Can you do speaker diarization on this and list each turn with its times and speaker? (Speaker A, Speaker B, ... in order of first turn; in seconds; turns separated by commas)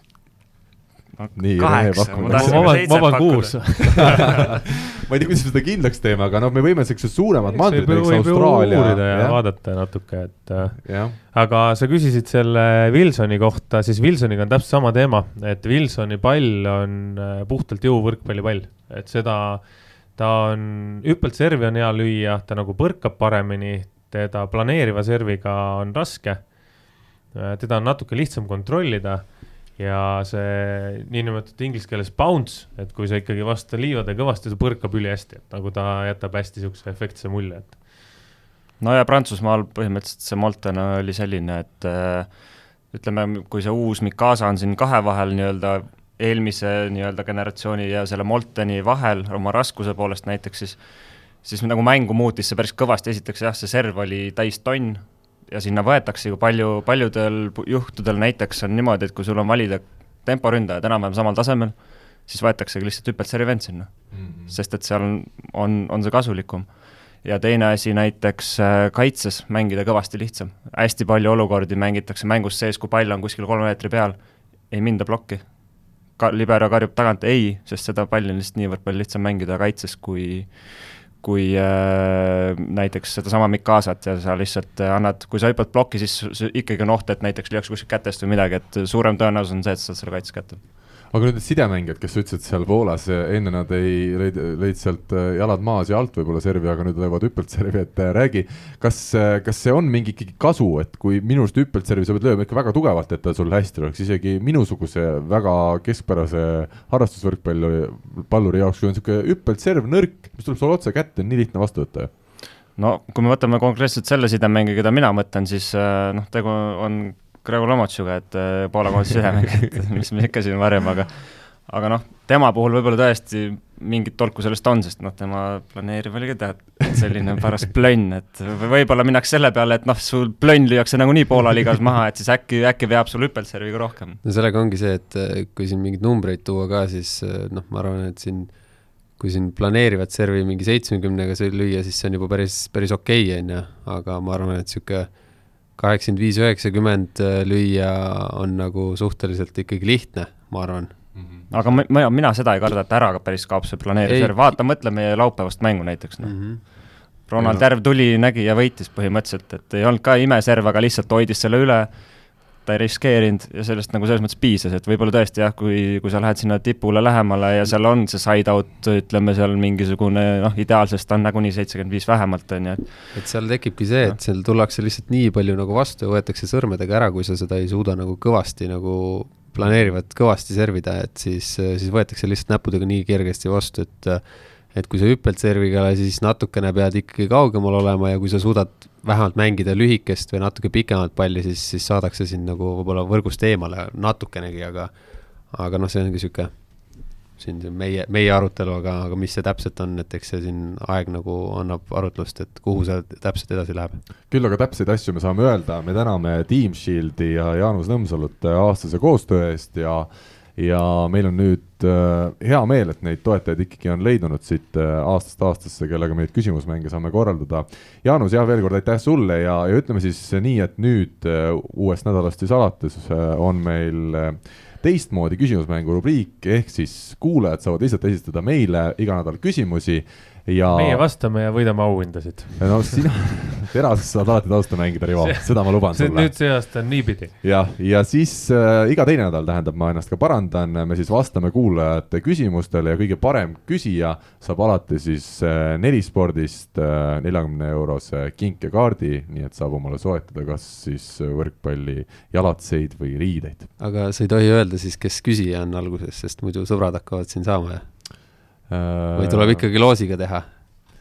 Speaker A: 1.2-4.2, Speaker B: 1.4-3.1, Speaker C: 2.2-4.4, Speaker B: 4.4-9.4, Speaker C: 7.4-26.5, Speaker B: 10.8-11.2, Speaker C: 27.3-37.8, Speaker A: 38.8-42.3, Speaker A: 42.9-50.8, Speaker A: 51.4-61.7, Speaker A: 62.2-66.7, Speaker B: 64.1-64.5, Speaker A: 67.2-74.2, Speaker A: 74.7-75.4, Speaker A: 76.2-90.6, Speaker B: 91.1-112.1, Speaker A: 112.8-134.2, Speaker D: 134.2-138.5, Speaker D: 139.2-145.1, Speaker D: 145.8-150.9, Speaker B: 151.1-151.4, Speaker A: 151.5-156.7, Speaker D: 154.1-154.3, Speaker D: 156.2-156.6, Speaker A: 157.3-161.9, Speaker B: 157.4-157.6, Speaker A: 162.6-173.1, Speaker D: 173.1-194.9, Speaker D: 195.5-196.5, Speaker D: 197.3-204.0, Speaker B: 204.3-231.0, Speaker C: 230.7-233.0, Speaker B: 232.6-236.5, Speaker C: 235.2-237.3, Speaker B: 237.4-253.7, Speaker D: 253.8-257.8, Speaker B: 258.7-259.6, Speaker D: 259.1-260.5